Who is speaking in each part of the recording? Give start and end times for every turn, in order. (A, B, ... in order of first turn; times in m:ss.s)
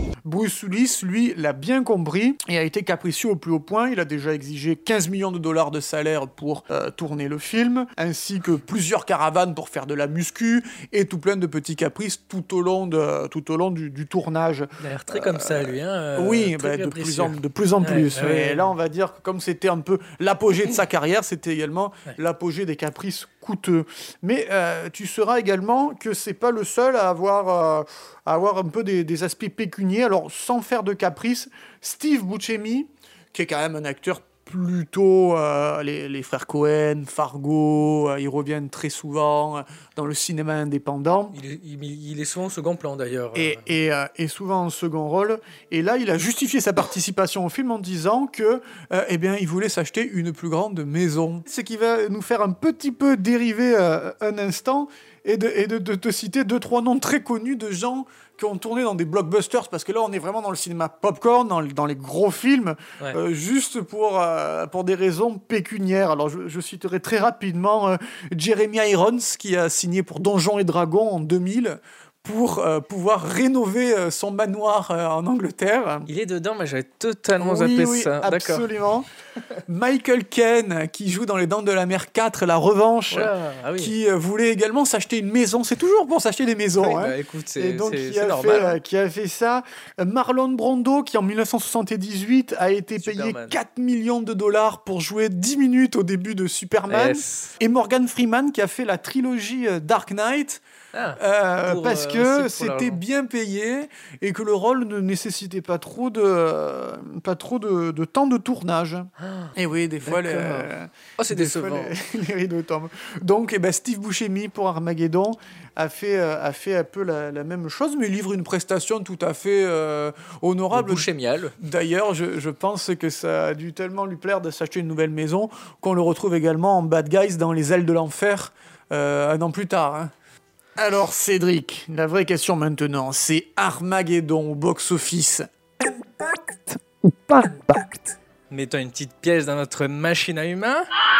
0:00.2-0:41.4 A
0:14.8-0:18.7 B
0:41.3-0:43.6 B
0:43.3-1:16.1 A
1:16.1-1:18.6 B
1:17.4-1:19.1 A
1:19.7-1:40.6 A
1:23.1-1:23.9 B
1:26.8-1:28.8 B
1:33.0-1:33.6 B
1:36.9-1:37.5 B
1:40.9-1:43.0 B
1:41.2-2:10.1 A
1:49.2-1:51.9 B
2:00.7-2:01.5 B
2:10.8-2:18.2 A
2:18.5-2:20.9 B